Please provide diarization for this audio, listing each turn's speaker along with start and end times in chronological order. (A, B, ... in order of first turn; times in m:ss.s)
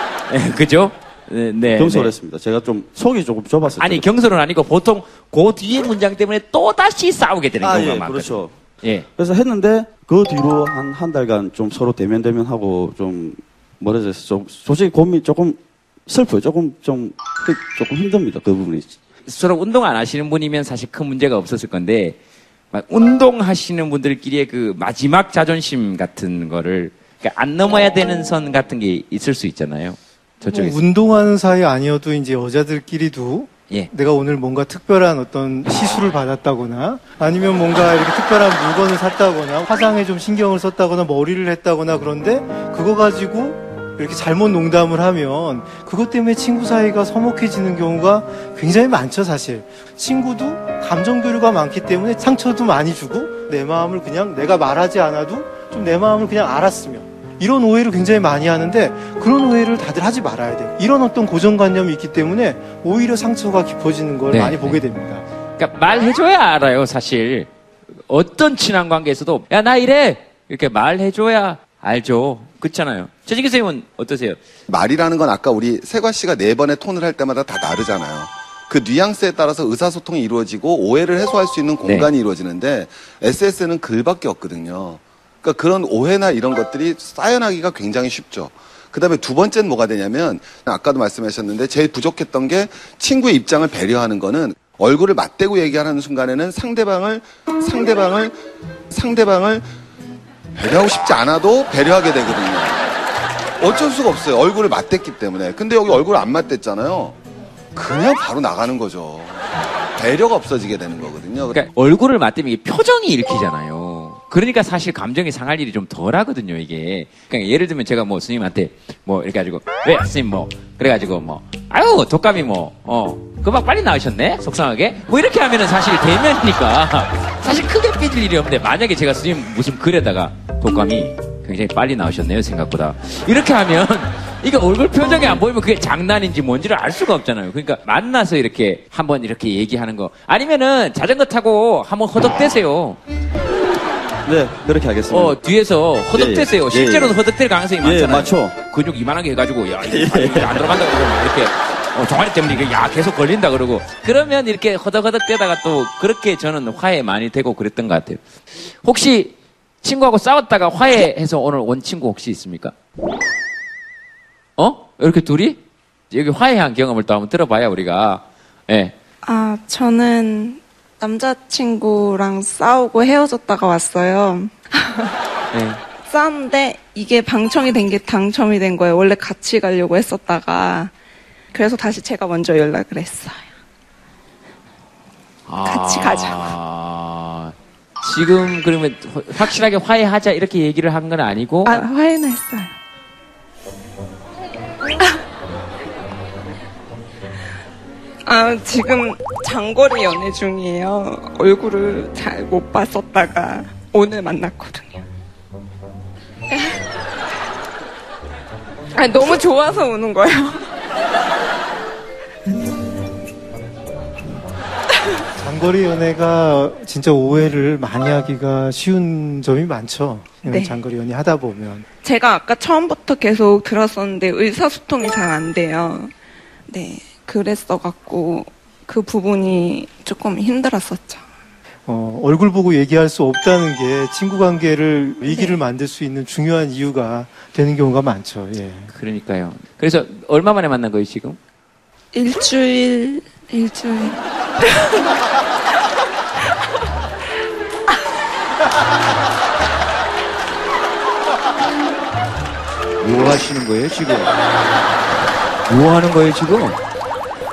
0:00.3-0:02.1 A
0:01.7-0:04.1 B
0:03.8-0:09.0 A
0:07.6-0:08.6 B
0:09.2-0:19.0 B
0:19.2-0:22.2 A
0:22.7-0:30.8 A
0:30.4-1:05.2 C
1:04.3-1:04.8 A
1:05.6-1:07.5 A
1:08.1-1:14.4 A
1:14.7-1:38.3 D
1:38.9-1:39.6 D
1:40.5-1:42.9 D
1:43.6-1:47.2 D
1:47.7-1:49.4 D
1:50.0-1:51.6 D
1:51.5-2:23.0 A
2:24.2-2:25.4 B
2:25.1-2:38.2 A
2:26.1-2:27.2 B
2:27.8-2:28.5 B
2:29.8-2:30.7 B
2:38.8-2:42.7 A
2:44.6-2:45.6 A
2:46.1-2:48.9 A
2:49.2-2:55.1 E
2:55.5-2:55.8 A
2:56.0-3:00.9 E
3:01.5-3:03.5 E
3:05.5-3:11.9 A
3:05.6-3:06.5 E
3:11.6-3:12.7 E
3:18.2-3:25.0 E
3:26.5-3:26.8 E
3:28.9-3:30.6 E
3:35.4-3:41.8 C
3:40.4-3:40.8 E
3:42.0-3:46.1 E
3:46.7-3:51.2 E
3:51.9-3:58.9 C
3:55.3-3:55.6 E
3:58.9-4:01.4 A
4:02.1-4:04.7 E
4:13.0-4:14.3 A
4:15.7-4:16.8 A